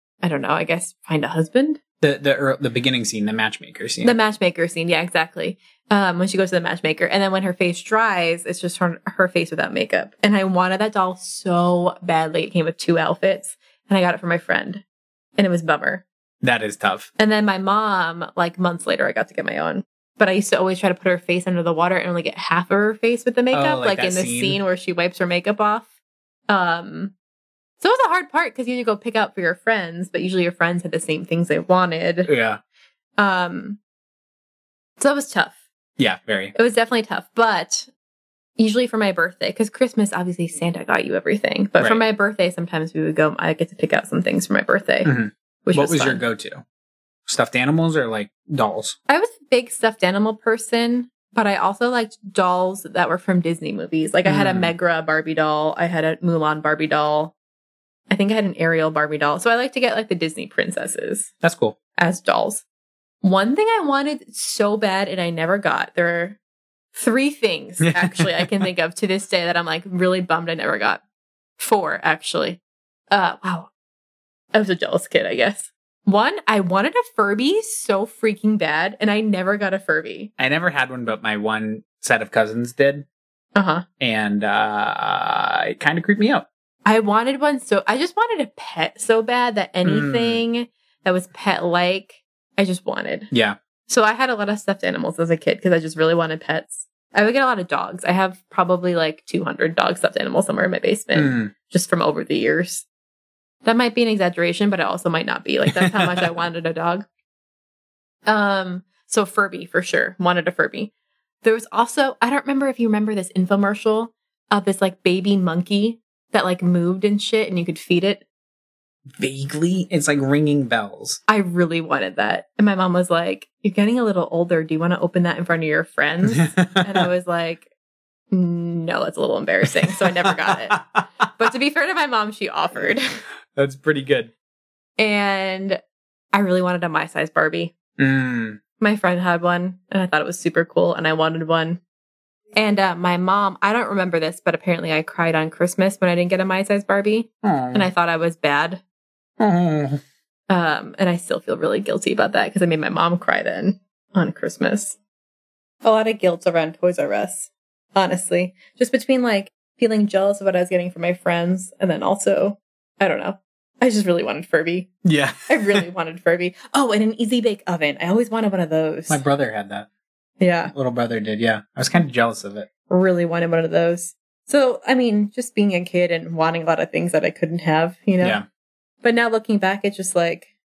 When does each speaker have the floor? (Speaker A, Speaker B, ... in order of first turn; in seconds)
Speaker A: 0.2-1.8, 4.0-14.8, 15.4-16.0, 17.2-25.9, 26.5-27.1, 27.8-32.3, 33.2-33.8, 35.0-35.5, 36.5-37.9, 38.6-45.1, 45.6-46.2, 49.1-57.3, 58.1-61.3, 62.0-62.6, 63.2-66.4, 66.9-71.0, 71.6-72.6, 73.1-73.7, 74.5-80.3, 83.5-83.8, 86.8-93.3, 93.9-102.8, 103.6-107.0, 108.3-110.9, 111.4-118.2, 121.3-127.7, 128.3-133.0, 135.0-135.8, 136.3-137.7, 138.8-141.8, 142.5-148.8, 150.5-154.9, 155.8-164.9, 165.5-169.2, 170.4-170.7, 172.9-178.4, 179.0-180.5
Speaker B: 2.0-4.2, 16.4-17.1, 23.5-24.6, 32.2-32.6, 36.0-36.5, 45.0-46.6, 47.2-49.0, 54.2-54.7, 61.4-61.8, 67.8-68.6, 80.4-83.0, 84.0-86.5, 89.8-90.4, 93.3-93.6, 101.1-101.5, 119.2-121.2, 126.3-127.1, 130.2-131.0, 133.5-134.3, 138.0-138.6, 147.4-147.9, 149.4-150.0, 165.0-165.8, 169.1-169.9, 170.7-172.7, 178.2-178.4